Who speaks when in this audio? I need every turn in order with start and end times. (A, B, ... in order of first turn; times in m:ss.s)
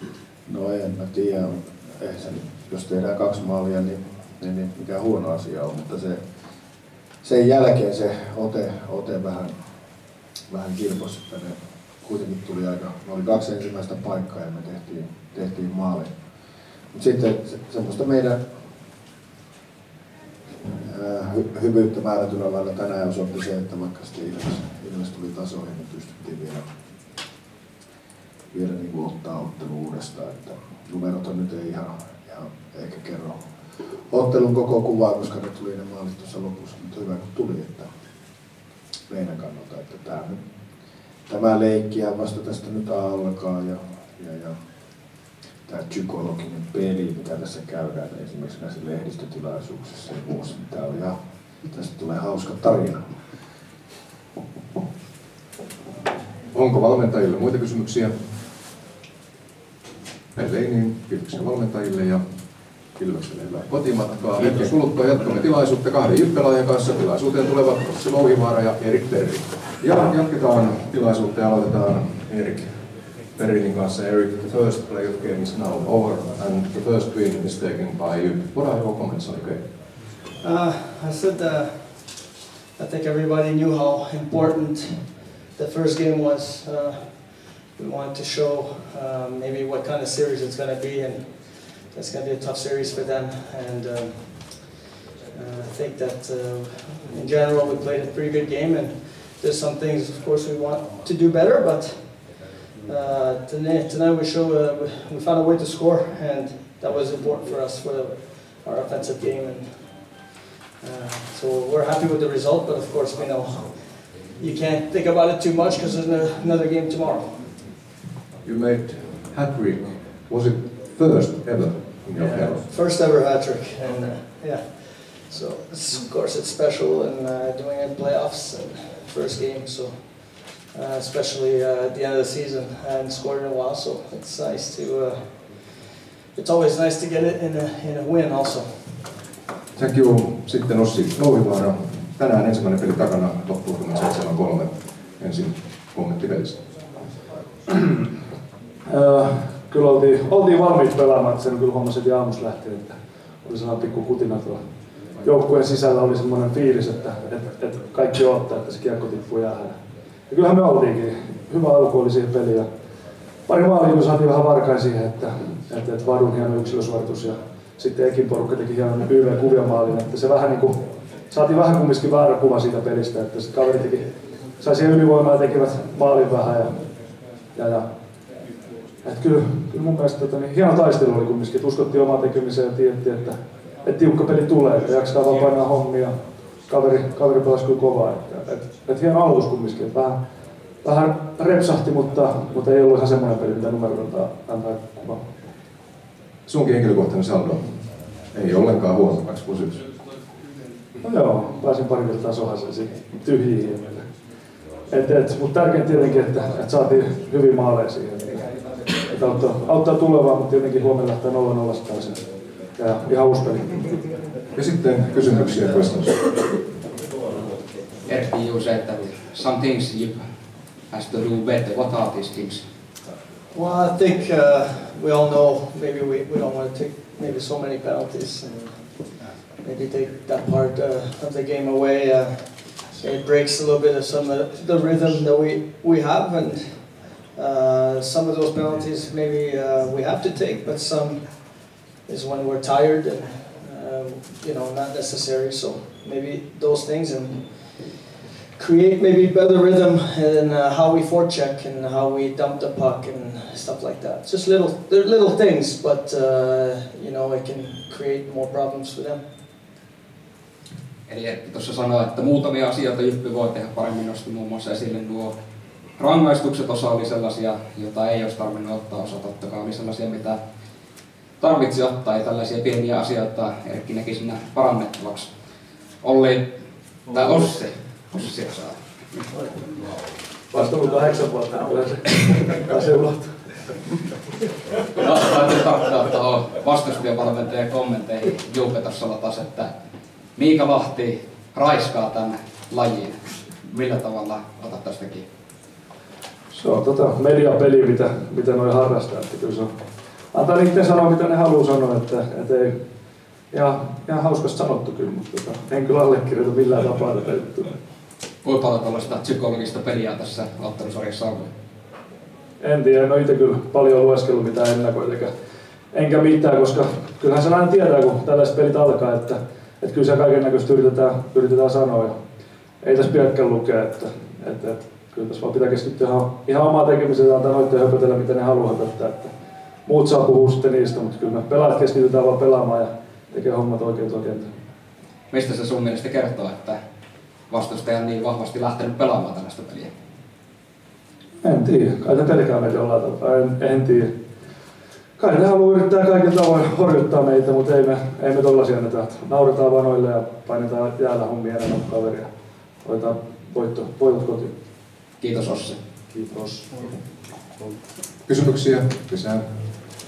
0:00.5-0:06.2 A
0:07.2-0:09.5 A
0:10.5-0:16.1 A
0:16.9-0:18.4 A
0:20.8-0:26.6 A
0:28.5-0:33.4 A
0:34.1-0:37.9 A
0:39.1-0:40.4 A
0:41.3-0:44.6 A
0:45.6-0:51.1 A
0:51.7-0:53.0 A
0:56.5-0:58.1 B
1:00.4-1:02.2 B
1:02.9-1:19.7 B
1:20.4-1:34.7 C
1:35.3-1:50.2 C
1:50.8-1:57.6 C
1:58.4-2:02.6 B
2:02.2-2:19.1 C
2:19.7-2:26.6 B
2:28.8-2:34.6 D
2:35.2-2:39.8 D
2:40.3-2:42.6 D
2:43.5-2:56.9 D
2:57.5-2:57.9 D
2:59.0-3:10.2 D
3:10.8-3:15.2 D
3:16.4-3:19.8 B
3:21.0-3:24.1 D
3:24.9-3:28.4 D
3:29.0-3:32.2 D
3:32.8-3:33.9 D
3:34.5-3:36.3 B
3:38.0-3:40.2 E
3:40.9-3:42.6 E
3:43.5-4:19.2 C
4:21.1-4:25.3 E
4:26.0-4:30.4 E
4:31.4-4:35.3 E
4:36.0-4:36.5 E
4:37.1-4:39.3 E
4:40.5-4:43.8 D
4:44.9-4:49.7 E
4:50.4-4:55.2 E
4:56.5-4:59.7 D
5:00.3-5:02.7 D
5:03.5-5:07.7 D
5:08.4-5:11.5 E
5:12.6-5:15.3 D
5:15.9-5:22.2 D
5:22.8-5:29.3 D
5:29.8-5:34.5 D
5:35.3-5:36.8 E
5:37.5-5:39.9 E
5:41.4-5:44.1 D
5:45.2-5:52.3 D
5:52.8-5:54.5 D
5:55.2-5:55.8 E
5:56.1-5:56.9 D
5:58.2-5:59.4 B